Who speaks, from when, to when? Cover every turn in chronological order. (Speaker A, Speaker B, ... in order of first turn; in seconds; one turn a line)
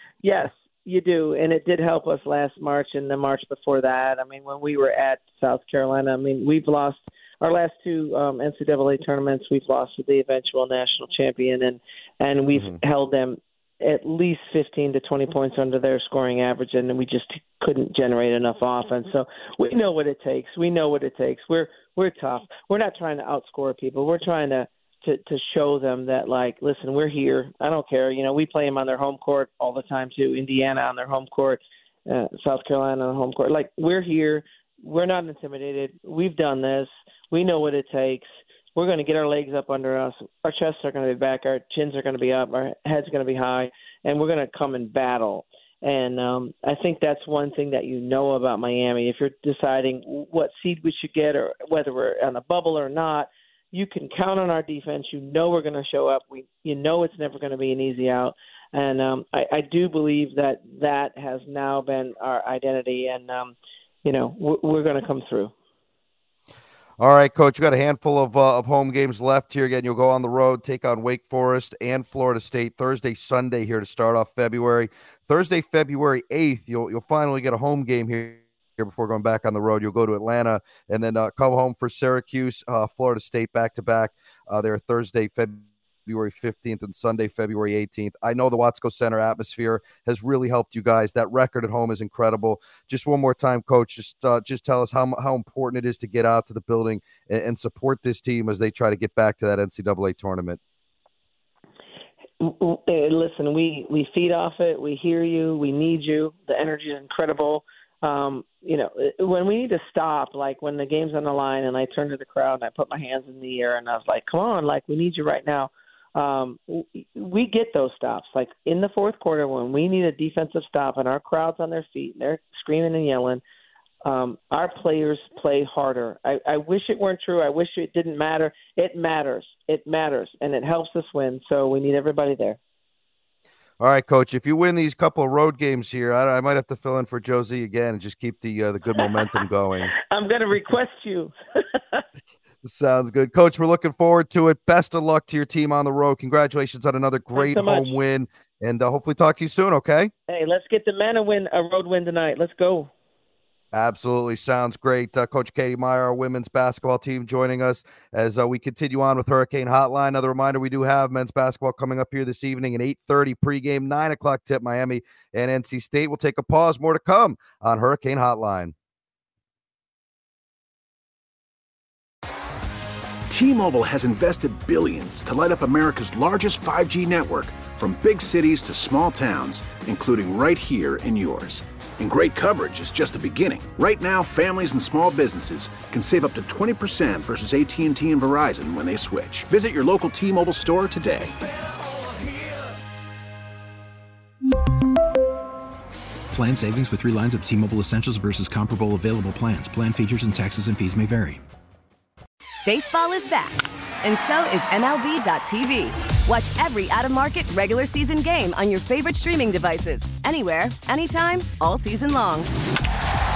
Speaker A: 0.2-65.5
Speaker B: 67.0-100.6
Speaker A: 102.4-123.4
Speaker A: 124.0-132.6
Speaker B: 133.8-139.9
Speaker A: 140.1-142.0
Speaker B: 142.6-150.1
Speaker A: 147.4-147.9
Speaker A: 150.3-152.9
Speaker B: 153.7-168.7
Speaker C: 173.3-191.3
Speaker D: 196.3-201.4
Speaker E: 202.6-212.5